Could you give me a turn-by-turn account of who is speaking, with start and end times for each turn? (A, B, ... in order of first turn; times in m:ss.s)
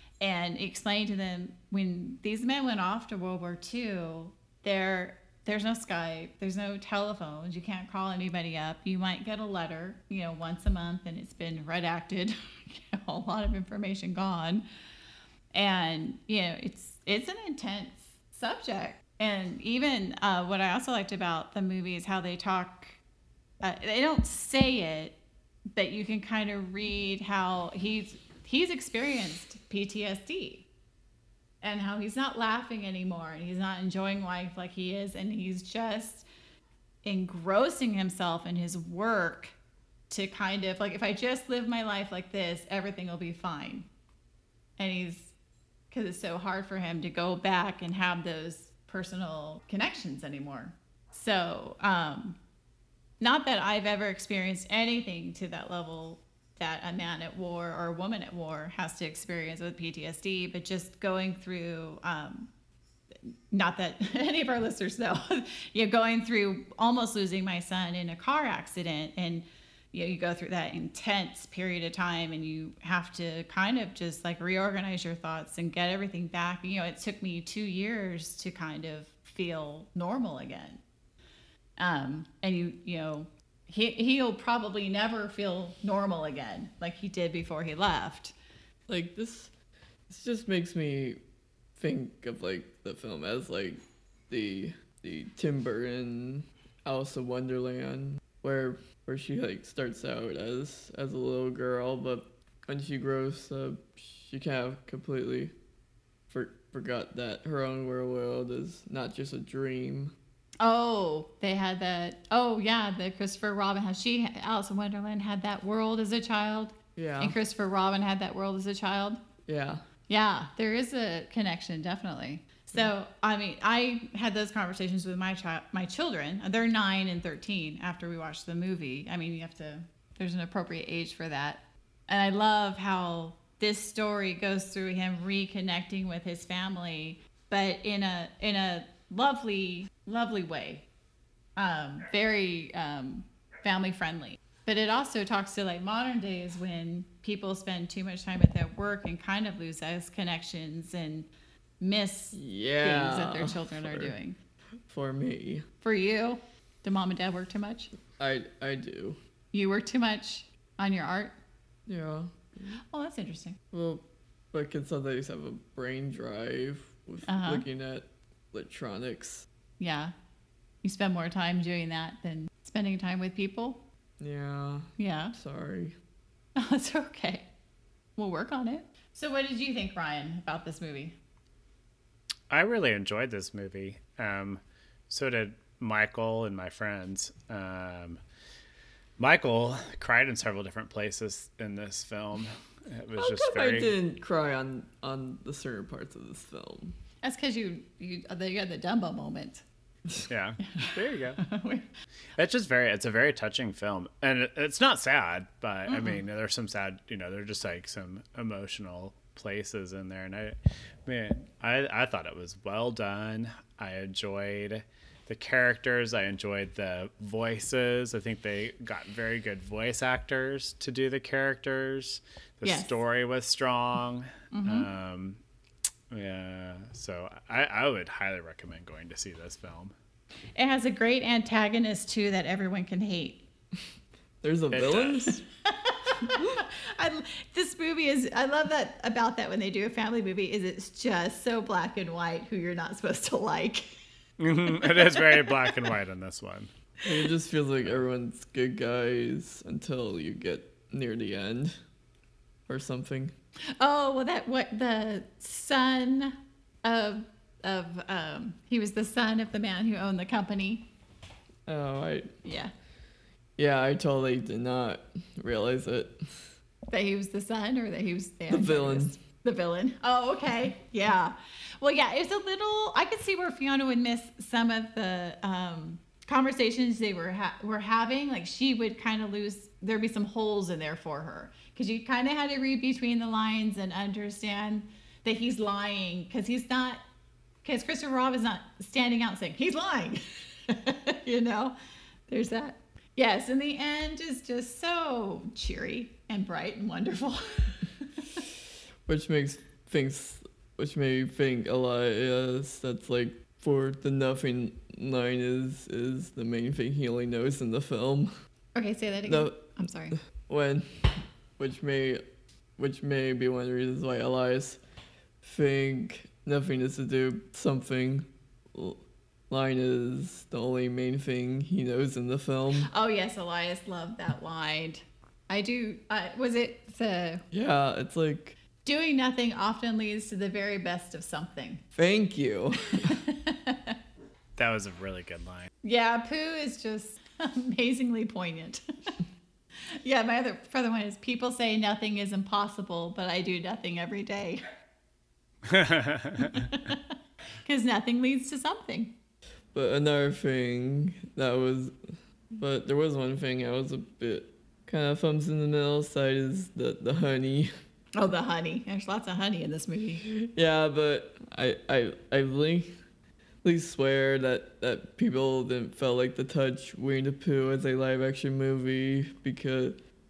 0:00.2-0:14.6 A
0:15.5-0:23.0 A
0:23.6-0:25.2 A
0:25.7-0:30.7 A
0:31.6-0:36.2 A
0:37.0-0:39.5 A
0:40.1-0:43.9 A
0:44.8-0:45.3 A
0:45.9-0:52.4 A
0:53.2-1:02.5 A
1:03.5-1:20.8 A
1:21.8-1:28.3 A
1:28.9-1:29.5 B
1:30.1-1:31.2 B
1:31.8-1:45.5 B
1:46.3-1:50.2 B
1:50.6-1:59.2 A
1:57.0-1:57.4 B
1:59.5-1:59.8 B
2:00.1-2:20.9 A
2:21.6-2:31.3 A
2:31.8-2:34.4 A
2:32.3-2:34.1 B
2:34.9-2:35.7 B
2:35.8-2:37.9 A
2:38.2-2:39.2 B
2:39.5-2:41.4 A
2:41.9-2:42.8 B
2:42.9-2:43.6 A
2:43.7-2:49.5 B
2:47.3-2:47.6 A
2:49.8-2:50.1 A
2:50.8-2:53.8 A
2:54.2-2:56.0 B
2:55.0-2:55.4 A
2:56.6-2:57.5 A
2:58.2-3:01.2 A
3:02.5-3:08.2 C
3:09.2-3:13.9 C
3:13.2-3:17.0 B
3:17.2-3:19.6 A
3:20.3-3:21.4 C
3:20.7-3:21.9 A
3:22.4-3:45.4 C
3:25.9-3:26.2 A
3:42.6-3:42.9 A
3:44.5-3:44.9 A
3:46.1-3:49.9 C
3:50.6-3:53.4 A
3:54.4-3:55.4 B
3:54.7-3:55.4 C
3:55.8-4:03.9 A
4:04.4-4:06.7 C
4:04.7-4:05.7 A
4:07.0-4:11.8 B
4:12.7-4:13.3 B
4:13.8-4:20.9 A
4:21.7-4:22.3 B
4:22.4-4:22.7 A
4:23.6-4:26.5 B
4:26.9-4:47.0 A
4:28.5-4:29.2 B
4:47.6-4:51.8 A
4:52.3-4:57.8 A
4:59.1-5:08.4 B
5:08.8-5:10.2 A
5:09.2-5:12.2 B
5:12.8-5:14.8 B
5:15.4-5:22.9 B
5:22.9-5:27.4 A
5:27.5-5:28.6 B
5:28.8-5:31.8 A
5:32.0-5:33.2 B
5:33.1-5:34.0 A
5:34.6-5:35.7 C
5:35.8-5:38.8 A
5:40.0-5:44.6 A
5:45.7-5:46.5 C
5:46.5-5:47.0 A
5:47.6-5:49.1 A
5:49.7-5:57.7 B
5:58.2-6:00.2 A
6:00.4-6:03.0 B
6:03.6-6:10.0 B